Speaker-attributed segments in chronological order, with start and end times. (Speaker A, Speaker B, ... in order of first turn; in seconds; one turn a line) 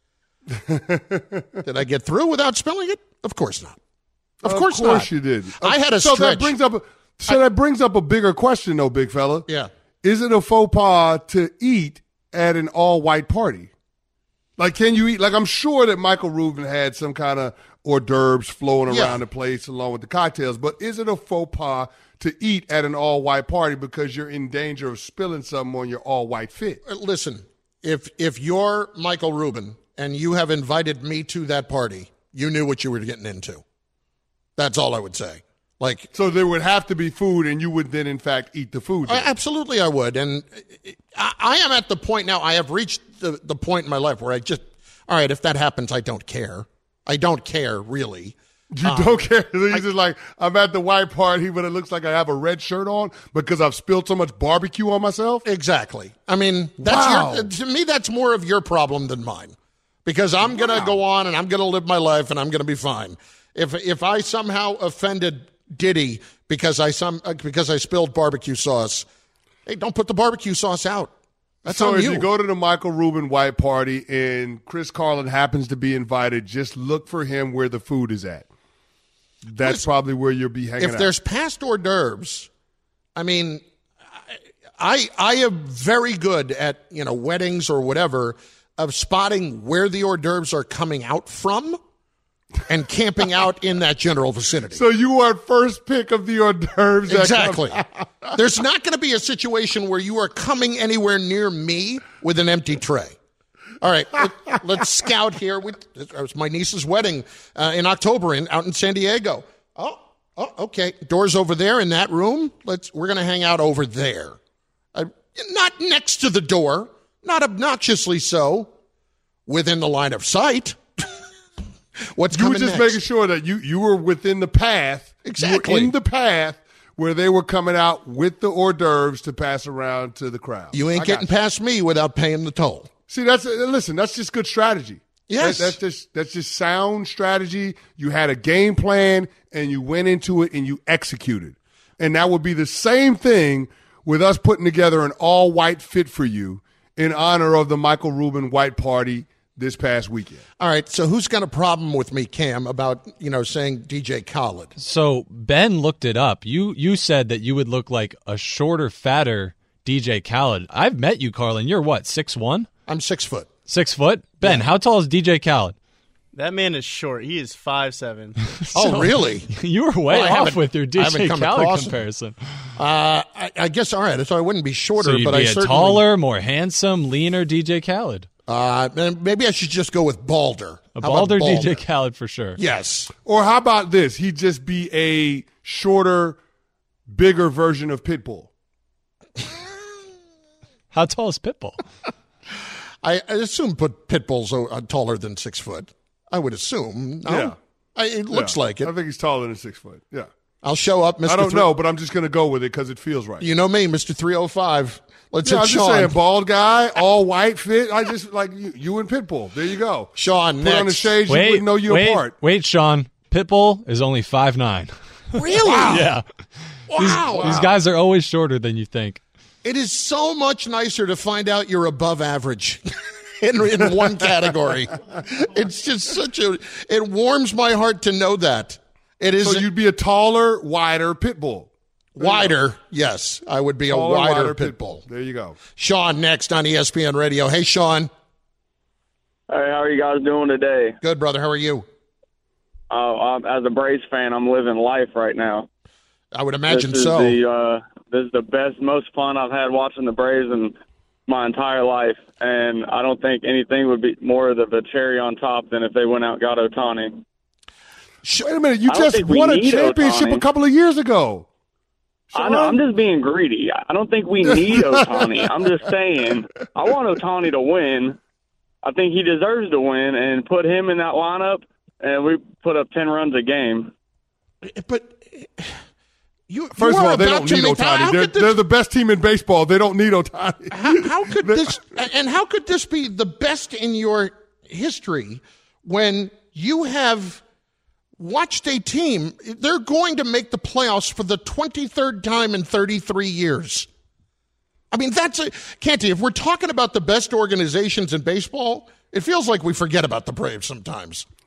Speaker A: 0.5-1.6
Speaker B: 1.6-3.8
Speaker B: 4.4-5.1
Speaker A: 4.4-9.5
Speaker B: 5.6-6.5
Speaker A: 10.0-13.7
Speaker A: 14.6-26.8
Speaker B: 18.9-19.2
Speaker B: 26.8-33.6
Speaker B: 34.6-36.1
Speaker A: 36.1-39.3
Speaker B: 39.0-49.2
Speaker A: 48.7-55.4
Speaker B: 55.4-69.0
Speaker A: 56.8-57.5
Speaker A: 60.4-61.0
Speaker B: 69.7-71.1
Speaker A: 71.6-78.5
Speaker B: 71.7-72.3
Speaker A: 79.5-81.1
Speaker B: 79.6-79.8
Speaker B: 80.8-82.5
Speaker B: 83.1-91.8
Speaker B: 92.7-94.8
Speaker A: 94.7-98.3
Speaker B: 97.1-97.8
Speaker B: 98.3-103.1
Speaker B: 103.8-114.4
Speaker B: 114.9-118.7
Speaker B: 119.5-121.0
Speaker B: 122.0-123.0
Speaker A: 122.3-131.3
Speaker B: 125.2-125.9
Speaker B: 130.7-132.9
Speaker A: 133.1-150.4
Speaker B: 135.3-135.8
Speaker B: 150.6-154.7
Speaker C: 154.8-162.7
Speaker B: 162.8-163.5
Speaker C: 163.7-165.8
Speaker D: 166.3-168.3
Speaker C: 168.7-172.3
Speaker B: 168.7-169.5
Speaker B: 170.1-172.0
Speaker B: 172.8-176.0
Speaker C: 175.0-178.3
Speaker B: 178.5-181.8
Speaker C: 180.9-182.6
Speaker B: 182.6-183.1
Speaker A: 183.2-186.4
Speaker A: 187.1-188.5
Speaker C: 190.9-191.8
Speaker B: 193.0-198.9
Speaker A: 197.2-197.6
Speaker A: 198.3-200.3
Speaker B: 200.6-201.7
Speaker A: 201.2-203.5
Speaker B: 203.4-206.1
Speaker A: 205.4-212.3
Speaker B: 210.1-211.1
Speaker C: 211.3-216.2
Speaker B: 215.3-216.2
Speaker B: 216.9-217.7
Speaker C: 216.9-219.2
Speaker A: 217.1-217.7
Speaker B: 219.6-229.7
Speaker A: 229.4-232.5
Speaker B: 232.2-235.0
Speaker A: 233.9-235.6
Speaker B: 235.7-238.1
Speaker E: 239.5-241.0
Speaker B: 241.0-241.8
Speaker E: 242.9-245.7
Speaker B: 246.3-247.4
Speaker E: 246.7-250.7
Speaker E: 251.3-257.2
Speaker A: 258.3-261.5
Speaker E: 258.9-260.4
Speaker A: 262.3-262.8
Speaker E: 262.3-268.2
Speaker A: 264.5-265.7
Speaker E: 268.8-273.9
Speaker B: 274.6-275.8
Speaker B: 276.5-278.6
Speaker A: 276.8-281.8
Speaker B: 280.7-287.4
Speaker B: 288.2-293.9
Speaker B: 294.9-301.2